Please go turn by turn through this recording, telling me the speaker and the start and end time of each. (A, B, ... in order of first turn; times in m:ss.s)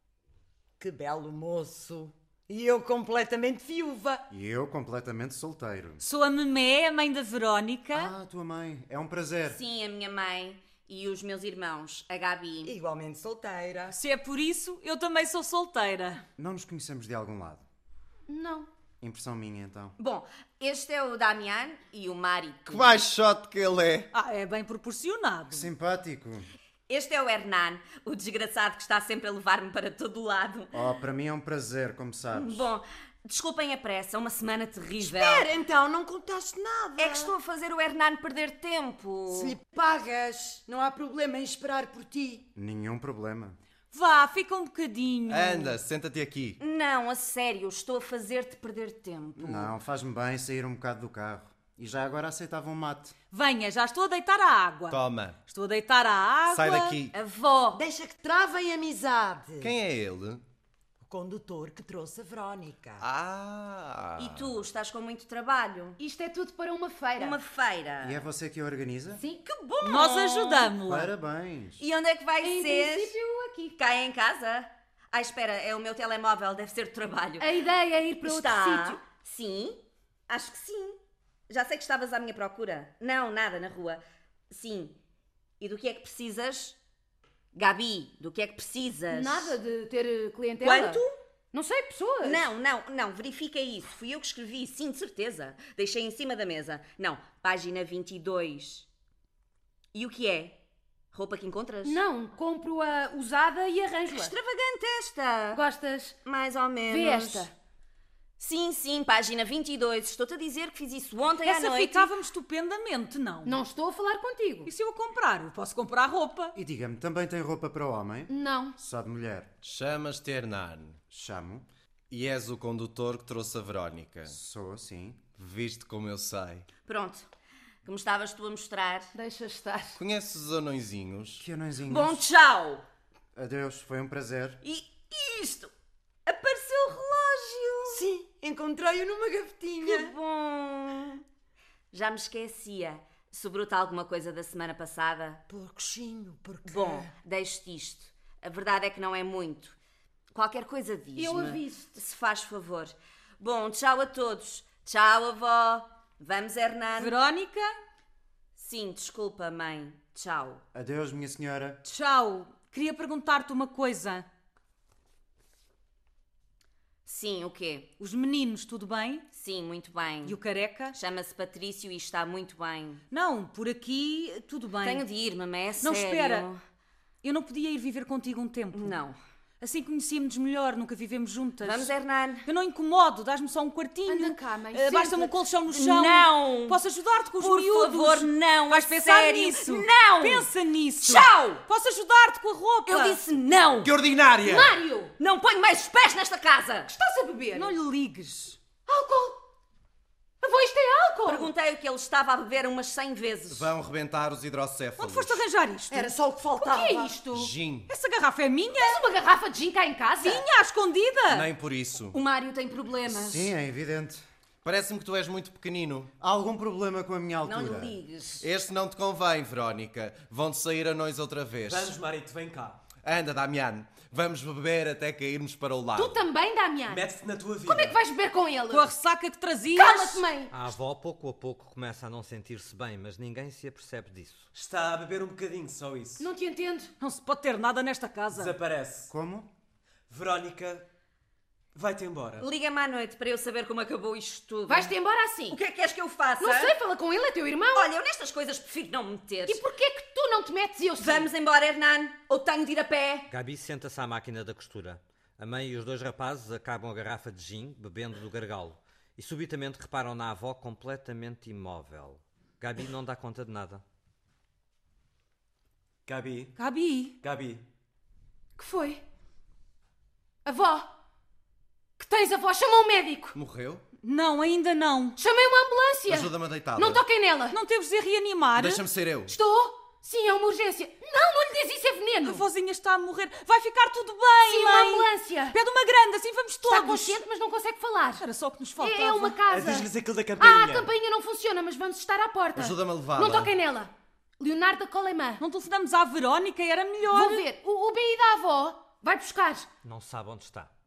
0:00.8-0:04.2 A
0:04.3-0:06.0 B
0:06.0-0:08.1 C
0:07.9-0:09.6 B
0:09.5-0:12.7 D
0:12.6-0:14.0 A
0:13.9-0:16.2 C
0:16.4-0:17.6 B
0:18.3-0:18.7 E
0:19.0-0:20.0 B
0:20.0-0:23.0 D
0:22.7-0:24.1 F
0:24.1-0:25.7 C
0:25.5-0:26.5 B
0:26.9-0:30.8 D
0:30.7-0:32.7 B
0:32.3-0:35.5 D
0:35.0-0:37.3 A
0:37.0-0:39.6 D
0:39.3-0:42.5 A
0:42.5-0:43.6 B
0:43.9-0:45.8 C
0:45.3-0:46.6 F
0:46.6-0:49.7 D
0:49.4-0:53.1 B
0:53.3-0:57.0 C
0:54.9-0:55.4 F
0:56.5-0:57.2 F
0:57.1-0:57.8 D
0:57.8-0:59.7 A
0:59.6-1:00.4 F
1:01.0-1:03.0 A
1:03.0-1:04.6 F
1:04.2-1:06.0 D
1:06.0-1:07.4 E
1:07.2-1:08.2 D
1:08.0-1:09.2 B
1:09.1-1:09.4 E
1:09.5-1:10.8 D
1:09.8-1:11.1 C
1:10.8-1:11.8 B
1:11.8-1:13.1 D
1:12.4-1:13.8 E
1:13.8-1:17.5 D
1:17.4-1:19.0 E
1:18.2-1:25.0 D
1:25.6-1:26.8 D
1:27.5-1:29.6 D
1:29.1-1:32.5 E
1:30.6-1:31.1 D
1:32.2-1:38.9 D
1:39.9-1:40.6 D
1:41.1-1:42.0 D
1:41.8-1:44.3 E
1:44.1-1:45.6 D
1:45.5-1:46.2 E
1:46.2-1:47.5 D
1:46.9-1:47.5 E
1:48.4-1:52.1 D
1:51.4-1:53.6 C
1:53.4-1:54.7 E
1:54.7-1:56.6 C
1:56.6-1:59.5 B
1:58.3-1:58.8 E
1:59.6-2:01.0 F
2:01.1-2:01.7 B
2:02.1-2:04.4 F
2:04.3-2:05.3 B
2:05.4-2:06.7 F
2:06.8-2:07.3 D
2:07.8-2:09.1 D
2:09.2-2:10.0 E
2:10.0-2:11.5 F
2:11.4-2:12.2 B
2:11.9-2:12.8 D
2:13.4-2:14.6 B
2:14.6-2:15.7 D
2:16.3-2:18.0 D
2:17.9-2:20.1 A
2:19.8-2:21.2 D
2:21.9-2:25.4 D
2:25.5-2:27.1 A
2:26.7-2:29.8 D
2:30.3-2:37.2 D
2:31.2-2:32.0 E
2:37.0-2:37.7 C
2:38.6-2:40.6 D
2:40.7-2:41.8 B
2:41.8-2:44.2 C
2:47.1-2:47.9 D
2:48.0-2:49.2 C
2:49.3-2:50.4 D
2:50.2-2:51.0 C
2:50.9-2:53.0 D
2:53.1-2:55.0 C
2:54.8-2:56.6 D
2:55.8-2:56.5 C
2:57.2-2:59.0 C
2:58.7-2:59.2 D
2:59.6-3:01.9 C
3:01.6-3:02.5 D
3:02.4-3:13.2 C
3:04.1-3:05.3 E
3:05.7-3:06.8 D
3:07.4-3:10.5 D
3:11.0-3:11.6 D
3:12.9-3:13.9 D
3:13.8-3:14.8 F
3:14.4-3:15.1 E
3:15.2-3:16.9 D
3:16.9-3:17.7 E
3:17.6-3:18.6 C
3:18.9-3:19.4 E
3:20.4-3:21.5 E
3:21.3-3:23.7 D
3:23.5-3:25.4 F
3:25.0-3:26.1 C
3:25.9-3:27.2 A
3:26.6-3:27.5 E
3:27.3-3:27.9 F
3:27.9-3:29.0 C
3:28.8-3:30.4 E
3:30.2-3:31.5 C
3:31.3-3:32.2 F
3:32.1-3:33.5 D
3:33.1-3:34.2 B
3:34.6-3:36.1 F
3:36.2-3:38.0 B
3:37.4-3:38.5 D
3:38.4-3:42.0 F
3:41.7-3:42.8 G
3:43.0-3:46.3 F
3:46.0-3:47.1 E
3:46.9-3:48.0 G
3:47.6-3:48.9 E
3:48.7-3:50.2 C
3:49.7-3:50.5 E
3:50.5-3:54.5 H
3:54.5-3:56.3 G
3:56.2-3:56.9 E
3:57.0-3:58.6 C
3:58.3-3:59.1 G
3:59.1-3:59.5 B
4:00.1-4:00.9 G
4:01.7-4:02.5 G
4:02.4-4:04.9 D
4:04.7-4:05.6 E
4:05.5-4:06.8 D
4:06.4-4:07.9 E
4:07.7-4:09.6 D
4:09.5-4:11.3 E
4:11.0-4:13.3 D
4:13.3-4:23.8 H
4:26.1-4:26.6 G
4:26.6-4:27.2 C
4:27.2-4:27.6 G
4:28.6-4:29.0 E
4:30.4-4:30.9 E
4:32.0-4:33.4 E
4:33.3-4:33.8 F
4:34.0-4:35.2 C
4:35.2-4:37.6 E
4:36.1-4:37.0 F
4:37.5-4:38.8 C
4:38.6-4:39.3 F
4:39.3-4:42.4 E
4:42.2-4:47.2 C
4:44.4-4:45.6 E
4:46.6-4:48.2 E
4:48.2-4:49.4 C
4:48.8-4:55.4 E
4:49.5-4:50.9 G
4:52.6-4:53.5 F
4:55.4-4:57.4 C
4:57.1-4:59.7 E
4:59.8-5:00.7 H